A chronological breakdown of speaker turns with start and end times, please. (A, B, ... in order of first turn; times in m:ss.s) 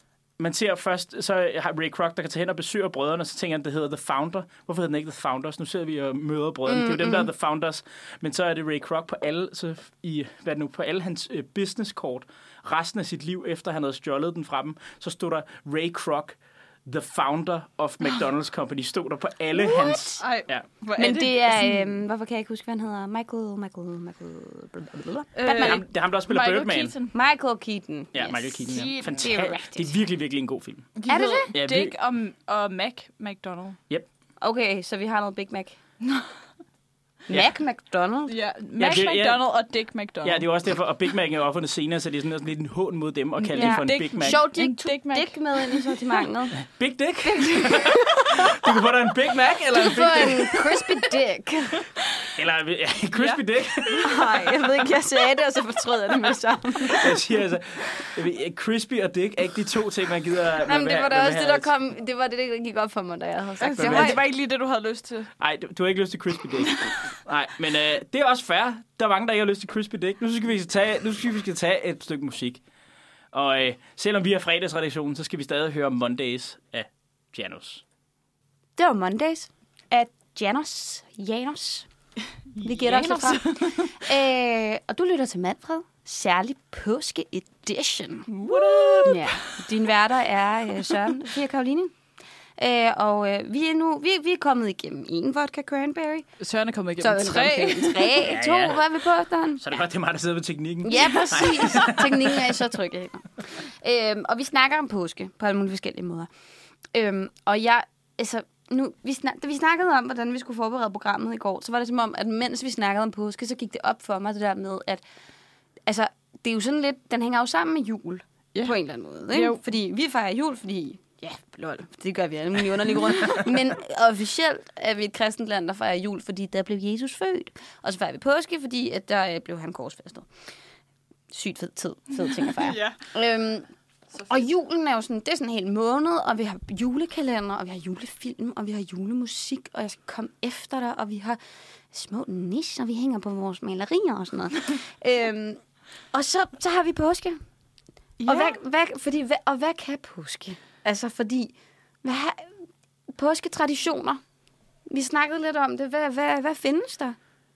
0:00.4-0:20.7 A
0:06.7-0:07.3 B
0:19.5-0:20.2 B
0:20.2-0:21.9 C
0:21.0-0:25.8 B
0:25.3-0:27.1 C
0:25.6-0:26.9 A
0:27.1-0:29.9 B
0:28.1-0:30.9 A
0:28.7-0:29.3 C
0:31.0-0:33.8 C
0:31.1-0:31.5 B
0:31.5-0:31.9 A
0:34.4-0:35.8 B
0:36.0-0:36.3 C
0:37.3-0:38.3 B
0:38.3-0:40.4 C
0:38.8-0:39.5 A
0:40.2-0:44.4 A
0:43.4-0:46.0 C
0:43.5-0:46.6 B
0:46.6-0:50.6 A
0:47.2-0:48.2 B
0:49.7-0:51.8 B
0:52.3-0:54.4 A
0:53.1-0:54.2 C
0:54.0-0:57.1 B
0:56.9-1:01.7 A
1:00.6-1:04.2 B
1:03.6-1:05.3 C
1:03.8-1:04.2 A
1:05.4-1:12.6 A
1:06.6-1:07.0 C
1:13.3-1:17.8 A
1:18.8-1:21.9 B
1:22.6-1:28.3 B
1:22.6-1:24.0 C
1:28.3-1:29.4 C
1:28.4-1:29.1 A
1:29.0-1:31.9 B
1:32.6-1:36.2 B
1:36.4-1:38.2 C
1:37.0-1:39.6 B
1:38.2-1:38.9 A
1:39.6-1:42.6 A
1:40.8-1:46.3 B
1:46.9-1:55.0 B
1:55.8-2:10.3 B
1:59.3-1:59.6 C
2:11.3-2:13.7 B
2:12.5-2:13.0 C
2:14.3-2:21.4 B
2:21.9-2:25.6 B
2:26.1-2:27.4 B
2:28.2-2:28.6 C
2:28.2-2:32.5 B
2:33.1-2:34.2 B
2:34.9-2:37.2 B